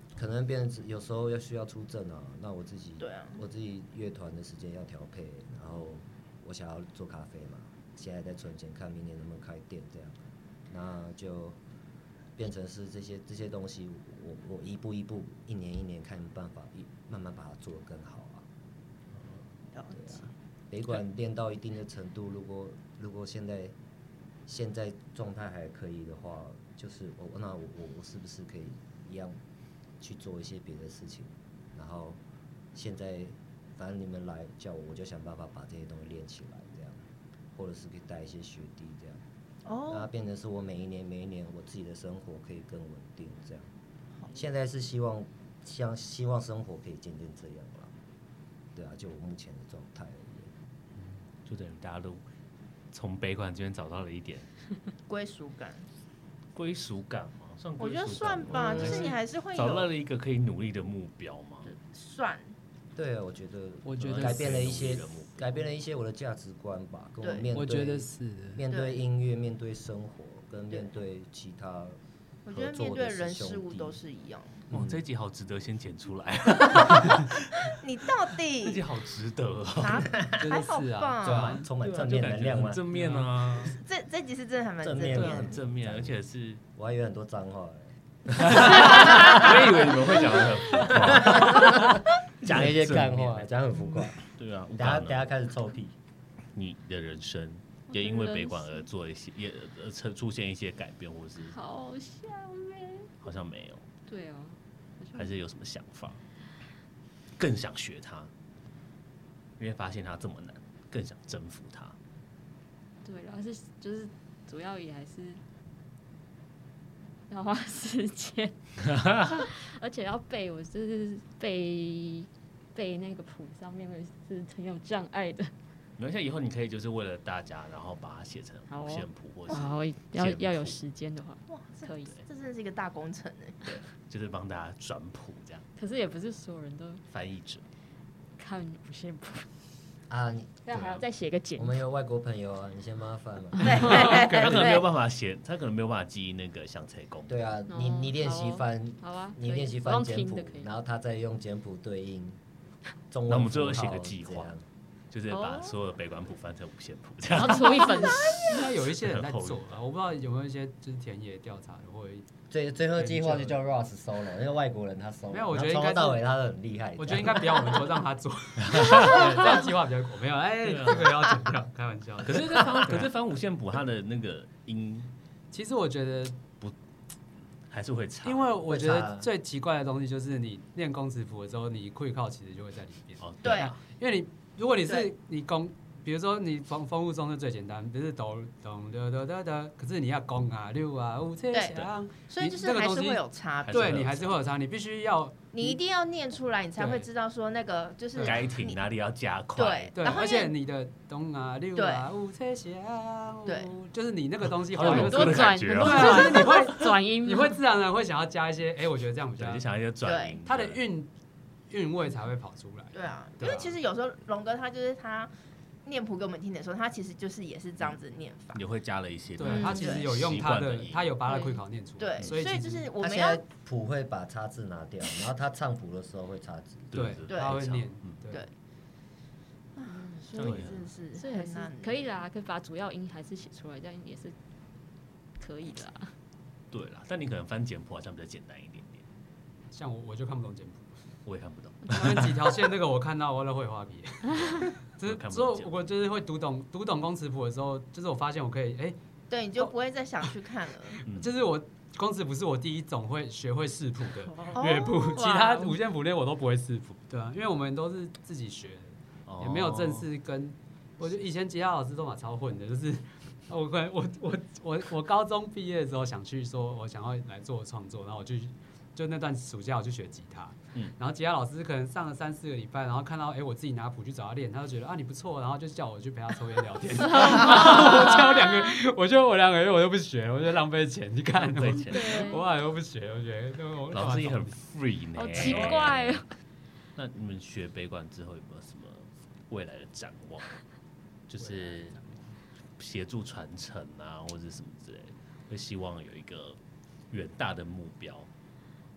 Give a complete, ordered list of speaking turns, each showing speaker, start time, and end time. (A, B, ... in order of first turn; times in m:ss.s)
0:00.2-0:11.6 A
0:03.0-0:03.4 B
0:12.4-0:18.5 A
0:19.7-0:20.3 B
0:19.9-0:23.7 A
0:24.4-0:29.4 A
0:30.0-0:32.2 A
0:32.7-0:39.2 A
0:39.6-0:40.1 B
0:39.9-0:43.7 A
0:44.3-0:47.9 A
0:48.7-0:50.5 A
0:51.0-0:52.2 C
0:52.9-0:54.5 C
0:55.1-0:55.9 B
0:56.5-1:01.7 C
0:57.8-0:59.9 B
0:58.5-0:59.1 A
1:01.6-1:02.5 B
1:02.9-1:12.0 A
1:03.8-1:04.4 D
1:04.0-1:05.5 C
1:07.2-1:07.5 B
1:07.5-1:08.6 D
1:08.7-1:09.0 B
1:12.4-1:14.6 B
1:12.5-1:14.0 A
1:14.7-1:17.7 C
1:17.7-1:18.8 B
1:18.6-1:20.1 C
1:19.8-1:21.6 B
1:20.4-1:21.7 D
1:21.2-1:22.8 A
1:21.8-1:23.8 C
1:22.9-1:23.3 D
1:23.7-1:25.6 B
1:24.8-1:26.2 A
1:25.0-1:26.6 C
1:26.7-1:35.9 A
1:28.4-1:33.5 C
1:34.3-1:35.3 C
1:36.5-1:41.6 C
1:37.9-1:38.9 E
1:41.4-1:43.1 E
1:43.2-1:43.8 C
1:44.1-1:45.3 E
1:45.1-1:46.2 C
1:47.4-1:48.3 C
1:49.6-1:52.0 C
1:53.0-1:55.4 E
1:57.3-1:58.6 E
1:58.8-1:59.3 C
1:59.1-2:05.5 E
2:06.0-2:10.8 C
2:08.7-2:12.2 E
2:11.5-2:13.8 B
2:13.8-2:15.6 C
2:15.8-2:17.0 E
2:17.1-2:17.6 C
2:18.4-2:19.5 E
2:20.1-2:21.0 A
2:20.7-2:21.8 E
2:20.7-2:21.0 C
2:21.6-2:24.0 A
2:23.6-2:24.9 B
2:23.6-2:27.4 C
2:27.3-2:32.4 A
2:27.7-2:30.7 E
2:33.1-2:34.6 A
2:33.3-2:34.5 C
2:35.1-2:38.3 C
2:35.3-2:35.7 E
2:37.3-2:38.5 E
2:38.4-2:42.3 D
2:38.9-2:39.6 C
2:42.5-2:47.8 A
2:43.0-2:43.6 D
2:45.3-2:46.2 D
2:47.0-2:53.1 D
2:48.7-2:49.4 C
2:50.6-2:51.1 C
2:52.2-2:55.1 C
2:55.5-2:56.4 D
2:57.7-2:58.6 C
2:58.2-3:15.8 D
2:58.6-2:59.3 A
3:03.2-3:03.8 C
3:03.4-3:03.7 B
3:04.8-3:05.1 B
3:11.5-3:14.1 B
3:13.6-3:14.4 C
3:15.5-3:18.8 B
3:16.8-3:17.0 D
3:18.2-3:20.2 C
3:19.6-3:20.5 B
3:19.9-3:29.6 D
3:21.7-3:22.0 B
3:23.4-3:23.7 B
3:24.7-3:26.8 C
3:24.8-3:27.6 E
3:29.4-3:30.8 C
3:30.0-3:30.4 B
3:30.4-3:31.1 D
3:31.7-3:33.8 D
3:32.9-3:35.3 B
3:35.8-3:38.6 B
3:38.5-3:41.2 C
3:39.4-3:42.9 D
3:39.4-3:40.1 B
3:42.0-3:43.4 B
3:43.0-3:47.0 A
3:46.9-3:48.2 C
3:46.9-3:48.4 D
3:47.3-3:47.6 B
3:49.8-3:52.1 B
3:49.8-3:50.6 E
3:50.3-3:50.9 C
3:51.1-3:54.4 E
3:55.4-3:56.1 E
3:56.7-3:59.0 C
3:59.7-4:00.9 D
4:01.2-4:02.4 C
4:01.9-4:09.0 D
4:04.3-4:05.8 C
4:09.3-4:11.0 B
4:11.0-4:44.6 D
4:11.0-4:11.3 C
4:14.3-4:15.8 E
4:14.6-4:15.1 B
4:19.3-4:20.0 C
4:37.2-4:38.3 E
4:41.4-4:42.4 C
4:41.9-4:42.4 E
4:43.9-4:46.2 C
4:45.1-4:46.3 E
4:45.4-4:45.8 D
4:47.0-4:50.6 C
4:51.3-4:52.0 C
4:51.4-4:52.4 D
4:52.8-4:56.6 C
4:57.1-4:58.3 C